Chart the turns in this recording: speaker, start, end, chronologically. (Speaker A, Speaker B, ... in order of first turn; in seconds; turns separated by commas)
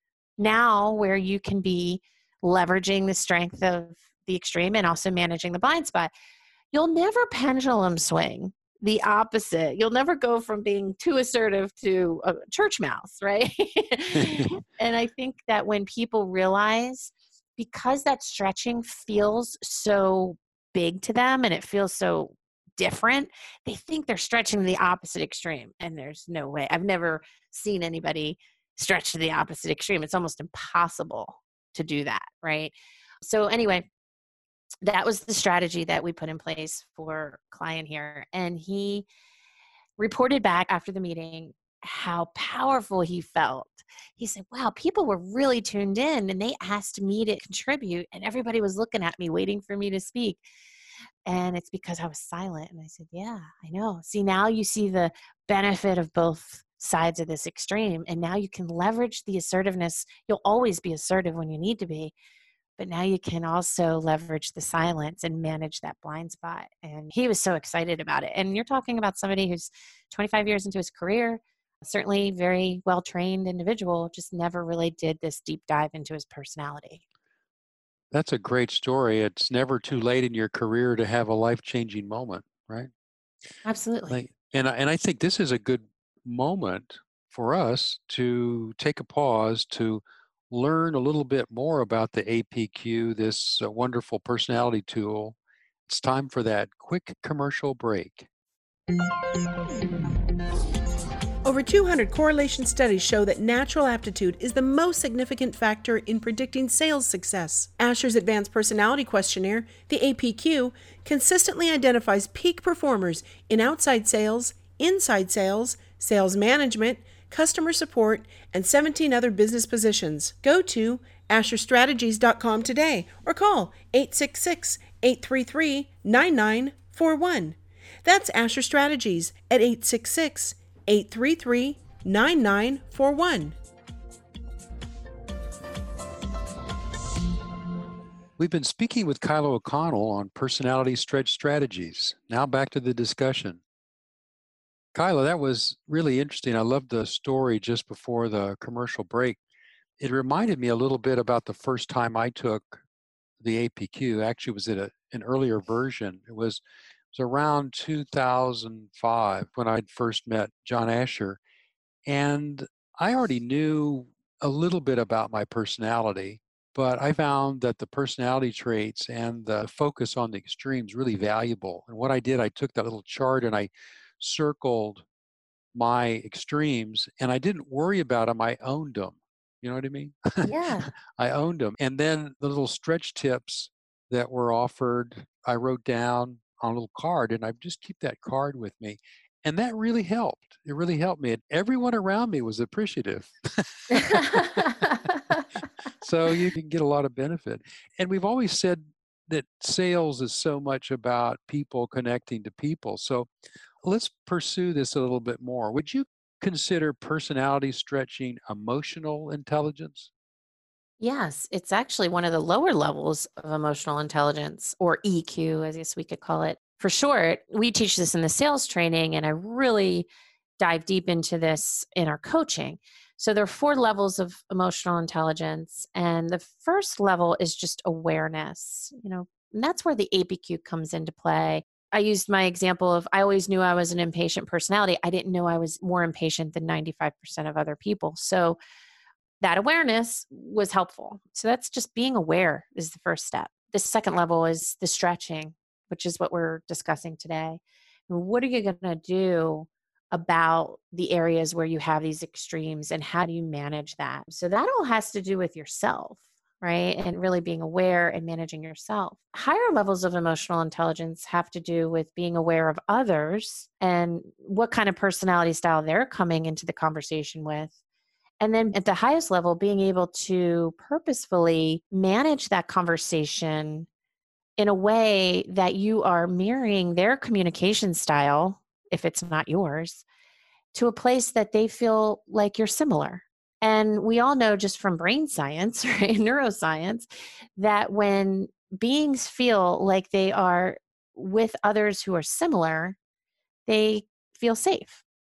Speaker A: 0.4-6.1, Speaker A: 6.7-33.9, Speaker B: 14.1-14.5, Speaker A: 34.8-39.1, Speaker A: 40.0-50.4, Speaker A: 51.2-62.1, Speaker A: 62.8-77.0, Speaker B: 78.1-82.9, Speaker A: 83.6-84.2, Speaker B: 84.1-98.3, Speaker C: 101.4-133.5, Speaker B: 138.4-143.6, Speaker B: 144.9-149.4, Speaker B: 150.0-152.8, Speaker B: 153.4-156.6, Speaker B: 157.1-161.4, Speaker B: 162.1-175.0, Speaker B: 175.7-194.6, Speaker A: 180.4-180.9, Speaker A: 194.1-195.0, Speaker B: 196.0-203.3, Speaker B: 203.8-210.1, Speaker A: 211.0-220.1, Speaker A: 220.6-238.6, Speaker A: 239.4-267.7, Speaker A: 268.4-273.9, Speaker A: 274.6-280.0, Speaker A: 280.7-293.0, Speaker A: 293.7-295.0